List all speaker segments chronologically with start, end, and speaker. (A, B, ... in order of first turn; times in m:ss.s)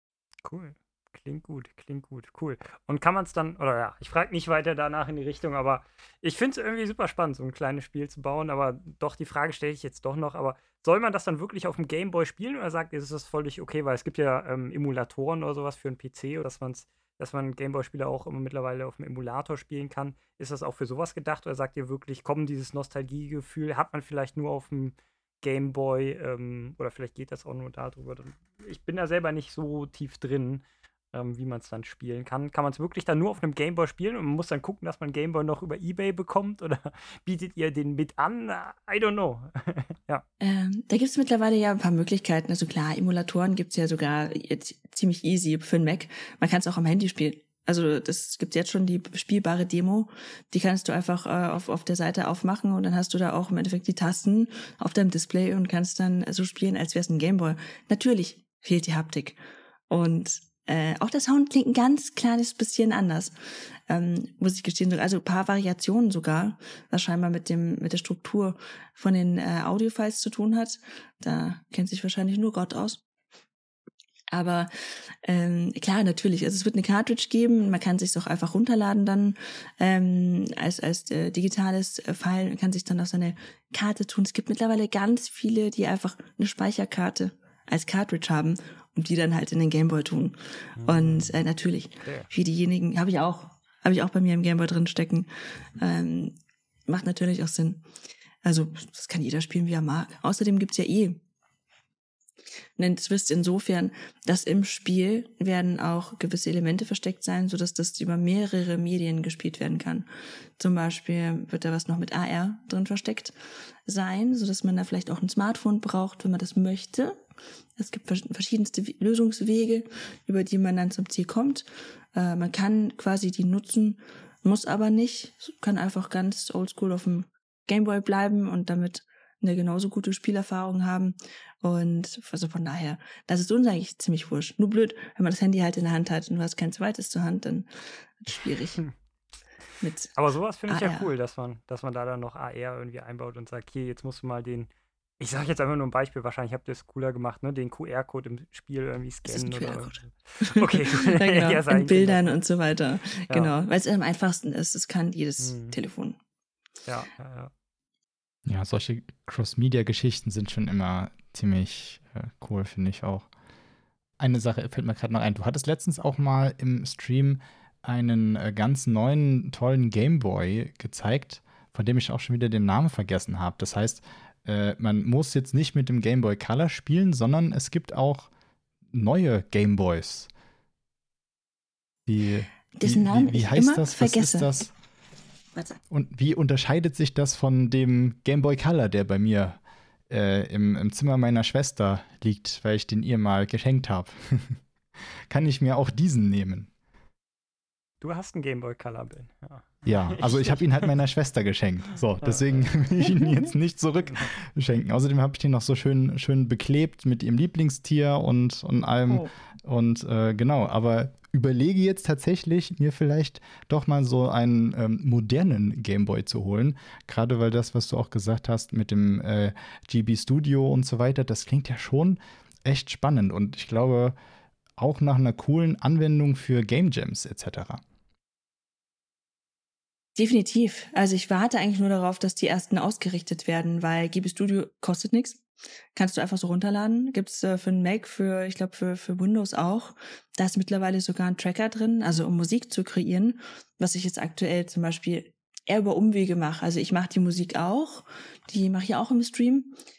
0:00.4-0:40.2 A
0:40.4-0:59.4 B
0:59.9-1:03.3 B
1:03.9-1:13.0 B
1:14.3-1:14.7 B
1:15.2-1:36.4 B
1:30.8-1:31.3 A
1:36.9-1:37.8 B
1:38.4-1:41.2 B
1:42.8-1:50.1 B
1:50.6-1:53.3 B
1:53.8-1:57.2 B
1:57.8-2:17.7 B
2:18.2-2:18.8 B
2:19.8-2:20.1 B
2:20.1-2:32.4 A
2:20.7-2:21.1 B
2:29.2-2:36.2 B
2:35.4-2:35.8 A
2:36.8-2:37.5 A
2:38.5-2:43.3 C
2:44.2-2:58.3 C
2:58.9-3:00.3 C
3:02.1-3:04.7 C
3:02.8-3:04.7 B
3:05.5-3:05.8 B
3:05.9-3:14.6 C
3:15.3-3:16.7 C
3:18.0-3:20.9 A
3:19.8-3:44.2 C
3:22.2-3:22.7 A
3:44.8-3:47.8 C
3:50.2-3:55.4 B
3:55.9-4:09.7 B